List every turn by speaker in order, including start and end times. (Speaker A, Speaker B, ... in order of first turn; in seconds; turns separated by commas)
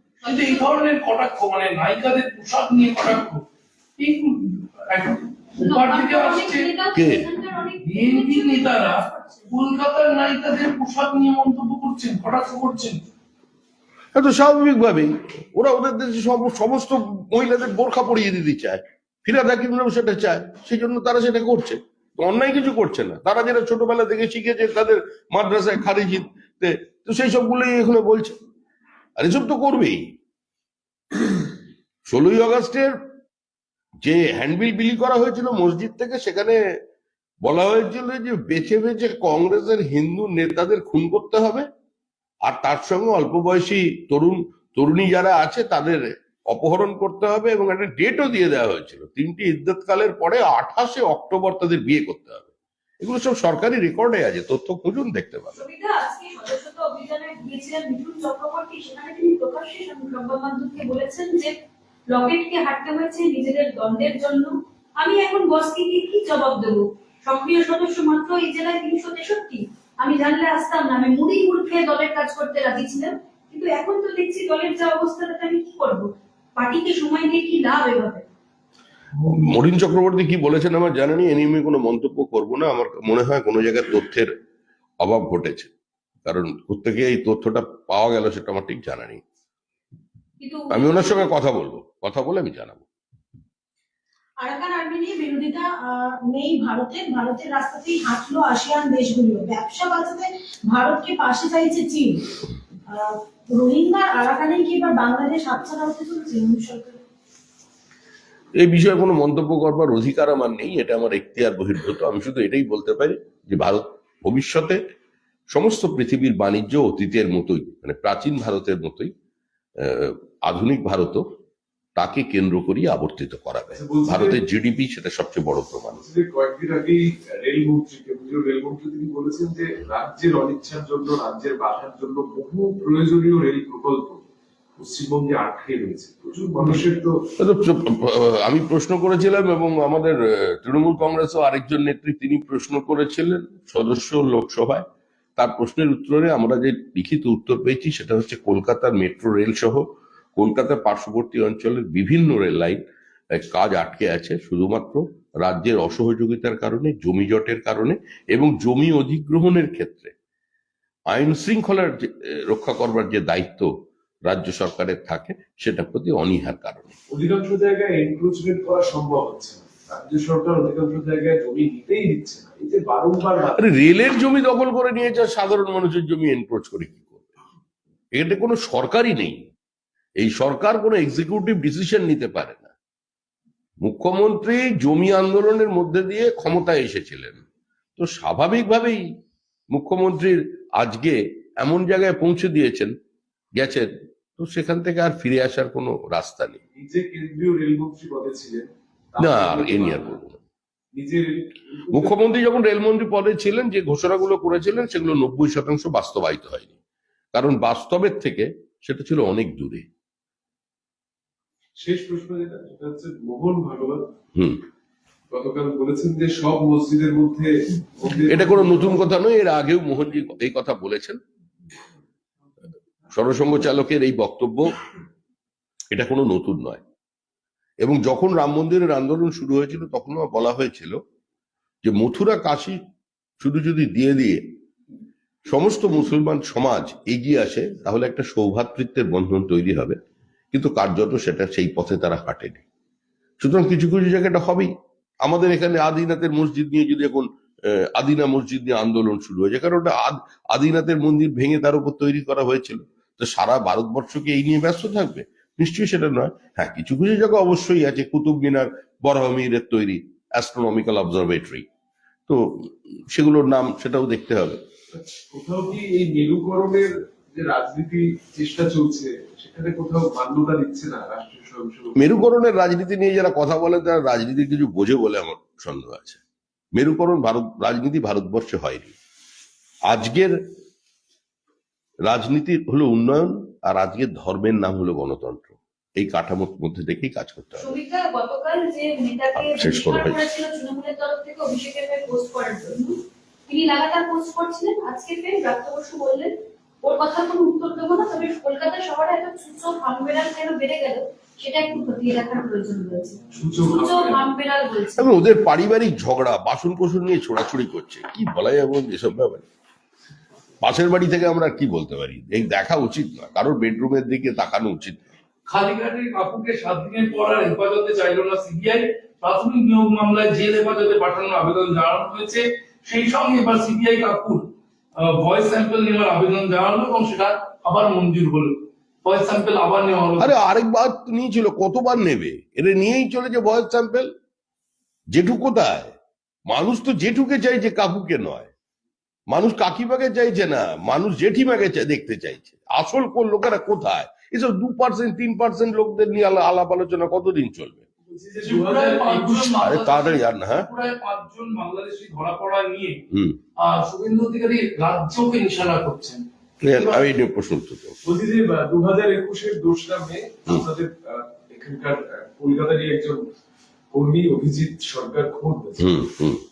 Speaker A: 0.2-3.4, Speaker B: 0.3-0.6, Speaker A: 4.0-6.7, Speaker B: 5.6-9.5, Speaker C: 6.9-7.3, Speaker A: 7.8-13.0, Speaker C: 14.1-28.3, Speaker C: 29.2-30.0, Speaker C: 32.0-33.0, Speaker C: 34.0-36.6, Speaker C: 37.4-41.7, Speaker C: 42.4-52.5, Speaker C: 53.0-55.6, Speaker B: 55.5-61.5, Speaker B: 62.1-78.2, Speaker C: 79.2-84.3, Speaker C: 85.0-85.7, Speaker C: 86.2-89.2, Speaker B: 90.4-91.3, Speaker C: 90.7-92.8, Speaker D: 94.4-102.3, Speaker D: 102.9-107.0, Speaker C: 108.5-114.8, Speaker C: 115.5-119.1, Speaker C: 119.8-121.2, Speaker C: 122.0-126.0, Speaker E: 123.7-124.4, Speaker E: 125.9-134.2, Speaker E: 134.8-137.2, Speaker C: 137.4-144.8, Speaker C: 145.4-149.8, Speaker C: 150.4-152.8, Speaker C: 153.3-160.1, Speaker C: 161.1-163.7, Speaker C: 164.3-166.9, Speaker E: 167.1-173.7, Speaker C: 173.6-177.3, Speaker C: 178.1-179.4, Speaker C: 180.2-182.7, Speaker C: 183.8-187.4, Speaker C: 188.0-189.0, Speaker C: 189.7-192.9, Speaker C: 193.6-196.6, Speaker E: 196.7-200.2, Speaker C: 199.2-200.4, Speaker E: 200.9-202.3, Speaker C: 201.9-206.8, Speaker C: 207.3-209.8, Speaker E: 211.8-214.1, Speaker C: 214.3-214.6, Speaker E: 215.3-219.0, Speaker C: 218.3-221.2, Speaker C: 223.1-224.7, Speaker C: 225.9-226.8, Speaker C: 227.8-231.0, Speaker C: 231.8-232.8, Speaker C: 233.4-234.4, Speaker C: 235.4-240.0, Speaker C: 240.5-242.6, Speaker C: 243.4-244.7, Speaker C: 245.2-261.6, Speaker C: 262.3-264.6, Speaker E: 264.9-272.0, Speaker C: 272.0-276.2, Speaker C: 276.7-278.9, Speaker C: 279.9-280.4, Speaker C: 282.1-287.7, Speaker B: 287.6-305.1, Speaker C: 289.4-290.2, Speaker E: 303.3-304.3, Speaker C: 305.0-309.4, Speaker C: 310.6-315.0, Speaker A: 315.5-330.3, Speaker C: 330.2-334.1, Speaker C: 335.1-335.9, Speaker C: 336.5-338.5, Speaker C: 339.3-347.8, Speaker E: 348.1-349.6, Speaker A: 348.4-353.0, Speaker C: 349.6-350.7, Speaker C: 353.1-353.4, Speaker A: 353.6-356.2, Speaker C: 356.6-357.9, Speaker A: 356.8-357.0, Speaker E: 358.0-363.3, Speaker E: 363.9-366.0, Speaker C: 365.8-366.4